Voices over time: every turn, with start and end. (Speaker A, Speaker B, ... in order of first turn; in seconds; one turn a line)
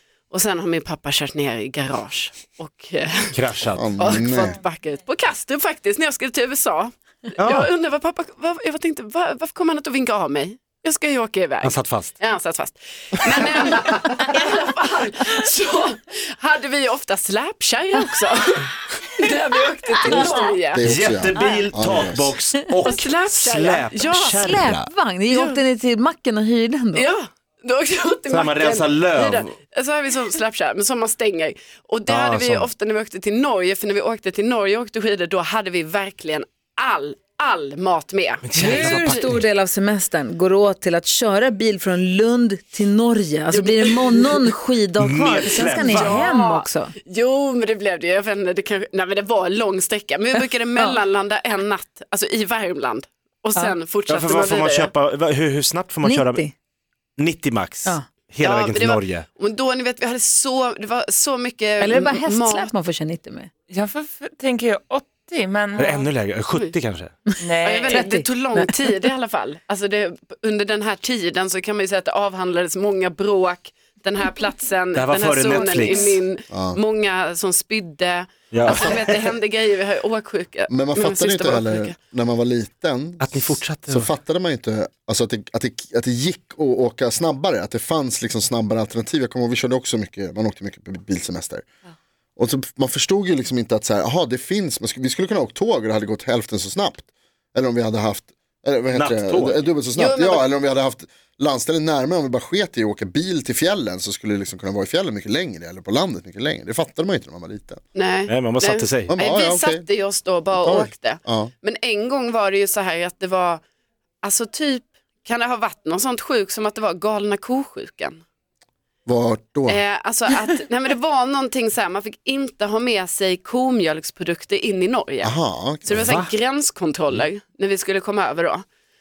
Speaker A: 0.3-21.7
Speaker B: 3.3-3.9
Speaker C: 3.7-4.6
Speaker B: 7.4-7.7
Speaker B: 11.6-12.1
Speaker C: 20.1-22.3
Speaker B: 20.8-24.9
Speaker A: 22.8-24.5
Speaker D: 24.4-27.1
Speaker A: 25.3-25.6
Speaker A: 26.9-39.2
Speaker B: 28.3-29.6
Speaker B: 32.1-32.7
Speaker B: 38.4-39.4
Speaker D: 38.6-46.9
Speaker A: 43.5-44.4
Speaker B: 45.0-46.2
Speaker A: 45.4-54.9
Speaker B: 54.1-56.5
Speaker D: 56.0-56.5
Speaker B: 57.2-59.3
Speaker A: 58.4-62.7
Speaker D: 61.8-63.5
Speaker E: 63.7-66.0
Speaker B: 65.8-67.2
Speaker E: 67.4-68.1
Speaker A: 67.6-82.0
Speaker D: 67.9-68.8
Speaker B: 74.9-76.2
Speaker C: 76.5-76.8
Speaker B: 78.5-79.3
Speaker C: 80.7-91.7
Speaker B: 83.2-84.1
Speaker C: 92.4-107.8
Speaker B: 98.9-99.7
Speaker A: 99.9-100.5
Speaker A: 108.0-113.6
Speaker B: 108.3-109.2
Speaker C: 109.1-109.9
Speaker C: 110.5-111.5
Speaker A: 114.2-118.2
Speaker C: 119.1-119.8
Speaker A: 119.7-125.3
Speaker C: 125.2-126.2
Speaker A: 125.9-128.7
Speaker B: 125.9-126.3